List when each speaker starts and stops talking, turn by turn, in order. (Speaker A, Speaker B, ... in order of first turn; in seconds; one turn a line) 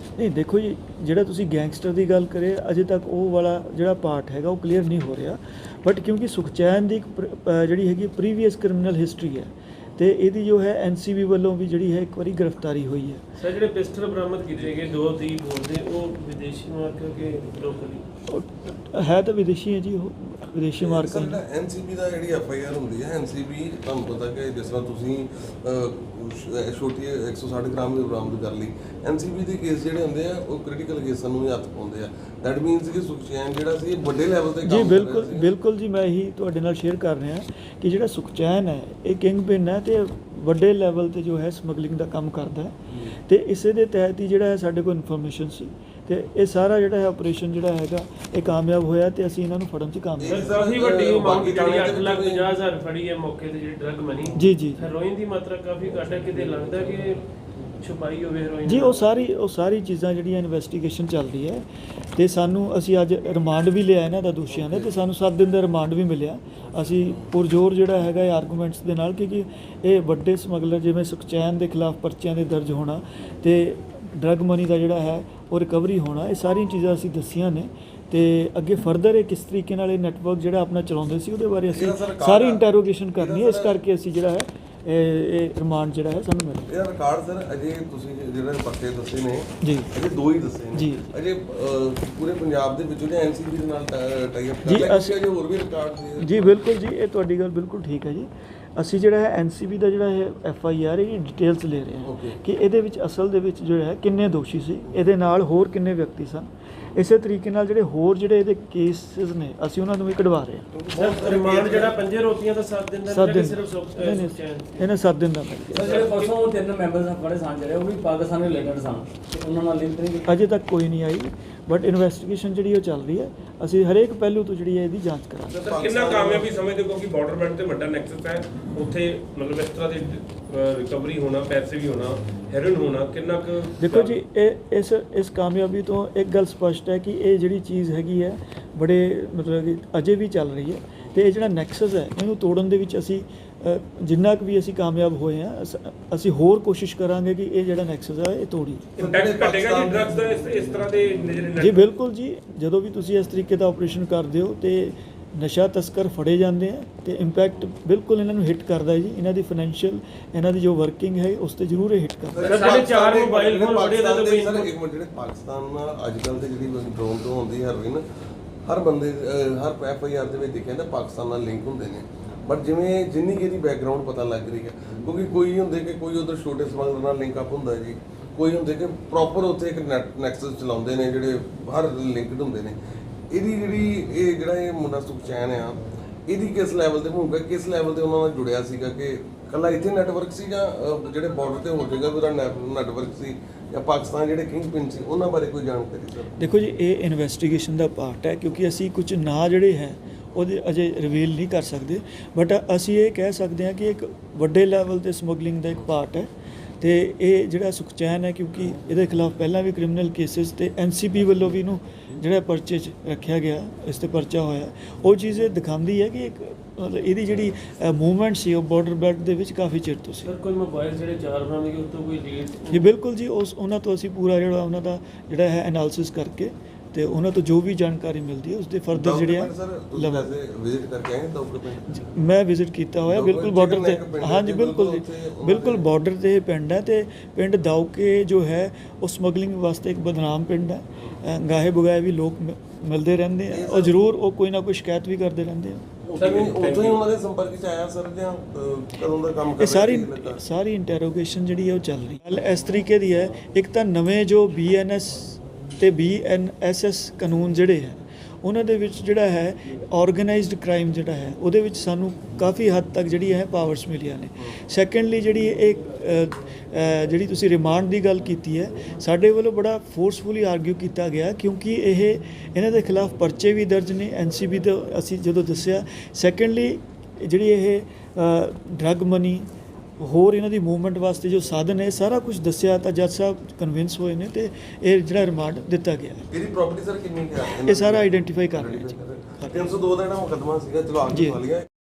Speaker A: 0.2-13.2
Speaker B: 13.4-18.1
Speaker A: 18.3-21.4
Speaker C: 20.8-35.5
Speaker A: 34.6-50.5
Speaker C: 50.2-52.5
Speaker B: 50.3-57.3
Speaker A: 54.4-54.8
Speaker B: 57.8-59.0
Speaker A: 58.6-86.7
Speaker C: 81.7-83.8
Speaker C: 86.7-96.7
Speaker A: 89.6-89.9
Speaker A: 90.8-91.1
Speaker A: 94.7-95.2
Speaker A: 96.2-110.7
Speaker C: 102.0-102.4
Speaker C: 110.7-112.0
Speaker B: 110.9-114.9
Speaker A: 113.1-116.1
Speaker D: 115.7-120.3
Speaker B: 115.8-116.3
Speaker A: 120.3-125.6
Speaker C: 125.5-126.5
Speaker E: 125.6-134.2
Speaker A: 133.8-149.0
Speaker E: 149.0-151.9
Speaker C: 149.0-150.2
Speaker A: 151.6-162.7
Speaker C: 162.3-168.0
Speaker B: 162.4-164.7
Speaker C: 168.7-182.8
Speaker C: 183.3-196.3
Speaker A: 196.4-206.3
Speaker A: 206.8-220.3
Speaker B: 220.2-222.9
Speaker A: 222.7-230.3
Speaker C: 228.9-232.0
Speaker A: 231.9-245.9
Speaker C: 233.1-235.9
Speaker C: 243.5-243.9
Speaker C: 246.0-250.4
Speaker D: 246.2-247.0
Speaker A: 249.6-279.5
Speaker A: 280.0-286.3
Speaker C: 286.3-291.7
Speaker A: 287.6-289.7
Speaker A: 291.1-291.4